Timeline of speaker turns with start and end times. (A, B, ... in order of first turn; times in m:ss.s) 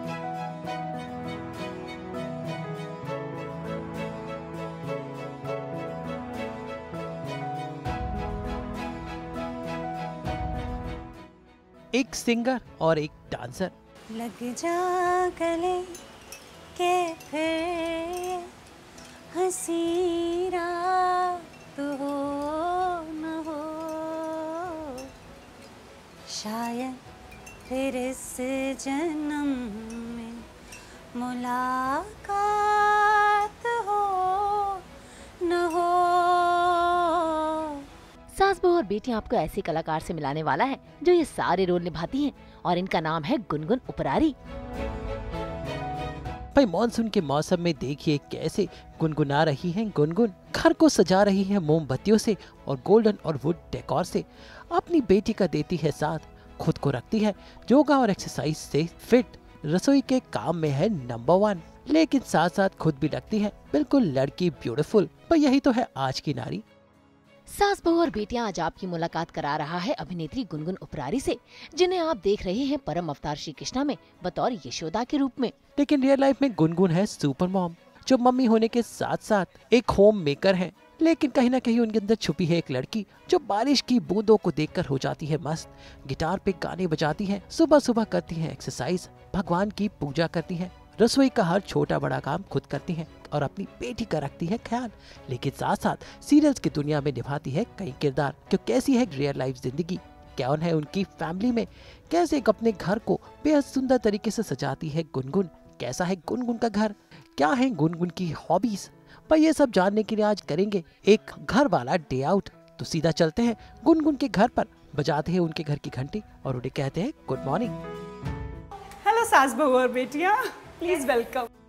0:11.9-0:13.7 A
0:14.1-0:16.0 B
0:16.7-0:18.5 B
0:19.3-0:25.1 B
0:26.3-0:27.0 B
0:27.6-0:30.5 B
0:31.1-0:34.8 B
0:35.4-0:37.9 B
0:38.3-0:44.4 C
0:46.5-1:06.6 A
1:07.5-1:15.6 C
1:15.8-1:57.8 A
1:58.9-2:01.5 B